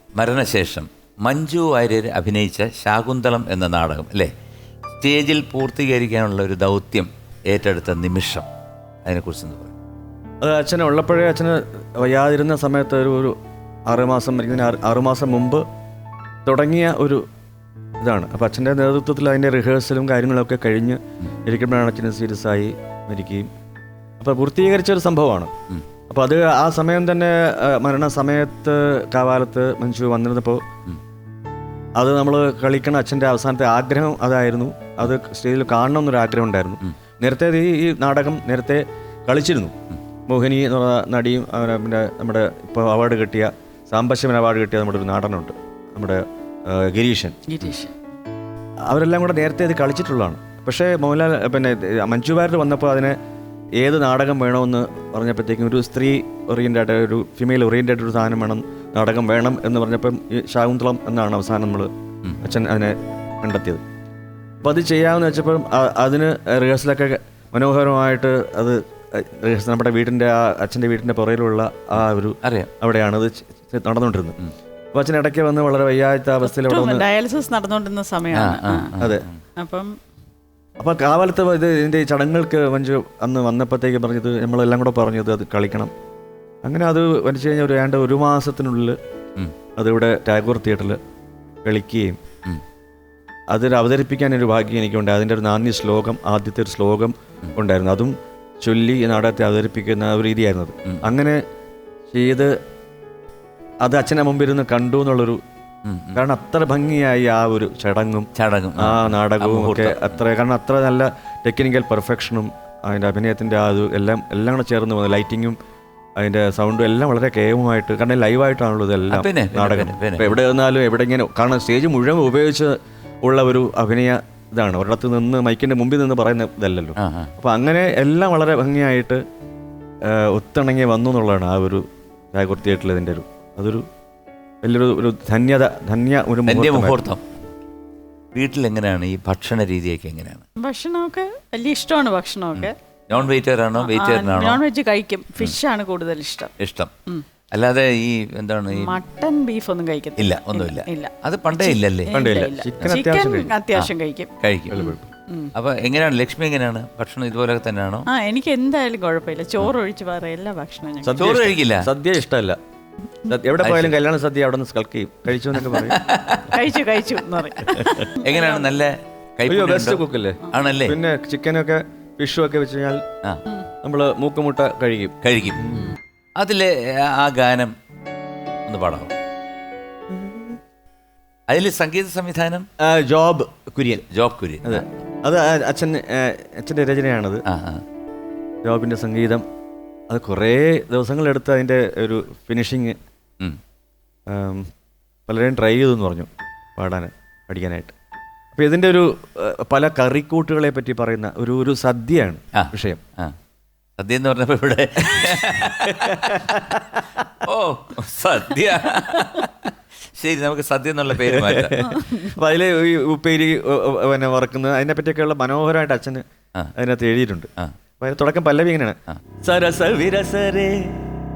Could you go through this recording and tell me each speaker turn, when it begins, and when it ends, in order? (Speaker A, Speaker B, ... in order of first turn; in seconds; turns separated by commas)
Speaker A: 0.2-4.3, Speaker A: 5.0-8.5, Speaker A: 9.1-9.7, Speaker B: 10.4-13.4, Speaker B: 13.9-15.7, Speaker B: 16.5-17.2, Speaker B: 18.0-23.5, Speaker B: 24.2-25.5, Speaker B: 26.1-30.6, Speaker B: 32.0-39.7, Speaker B: 40.3-47.4, Speaker C: 47.5-48.0, Speaker B: 48.9-53.1, Speaker B: 53.8-61.9, Speaker B: 62.4-63.8, Speaker B: 64.6-74.4, Speaker A: 72.4-72.7, Speaker B: 74.9-77.0, Speaker C: 76.4-78.9, Speaker A: 78.3-79.4, Speaker B: 79.0-79.2, Speaker C: 79.6-80.0, Speaker B: 80.8-85.9, Speaker B: 86.6-89.0, Speaker B: 89.8-91.0, Speaker B: 91.7-92.2, Speaker B: 93.5-101.4, Speaker B: 102.1-102.5, Speaker B: 103.8-105.4, Speaker A: 105.9-106.2, Speaker B: 106.2-115.6, Speaker A: 108.3-110.2, Speaker B: 116.2-129.2, Speaker A: 119.1-120.4, Speaker A: 127.0-127.3, Speaker B: 130.1-133.8, Speaker B: 134.6-137.1, Speaker A: 136.5-137.2, Speaker A: 138.3-140.4, Speaker C: 140.6-142.8, Speaker A: 142.6-144.6, Speaker C: 143.8-146.5, Speaker A: 146.6-146.9, Speaker A: 147.5-149.0, Speaker C: 148.7-155.5, Speaker A: 150.2-152.2, Speaker B: 152.1-153.5, Speaker A: 153.8-154.9, Speaker B: 154.7-155.0, Speaker A: 155.5-158.1, Speaker C: 158.1-161.3, Speaker B: 161.0-162.6, Speaker A: 161.2-161.9, Speaker B: 163.3-166.0, Speaker A: 163.6-163.9, Speaker A: 165.6-166.6, Speaker C: 166.5-168.8, Speaker B: 167.8-168.0, Speaker A: 168.2-171.0, Speaker B: 169.5-173.0, Speaker B: 173.8-175.2, Speaker A: 175.2-175.8, Speaker A: 176.4-177.8, Speaker A: 178.7-179.1, Speaker B: 180.1-180.6, Speaker A: 181.5-182.7, Speaker B: 182.8-184.1, Speaker A: 184.1-184.8, Speaker B: 184.6-187.4, Speaker A: 187.5-187.8, Speaker B: 188.6-189.4, Speaker B: 190.1-193.0, Speaker B: 194.3-194.7, Speaker B: 195.3-197.9, Speaker B: 198.5-203.0, Speaker A: 202.5-203.3, Speaker A: 204.0-206.6, Speaker B: 205.0-207.2, Speaker A: 207.4-211.9, Speaker B: 211.2-216.2, Speaker C: 211.9-212.3, Speaker B: 216.8-217.5, Speaker B: 218.0-221.0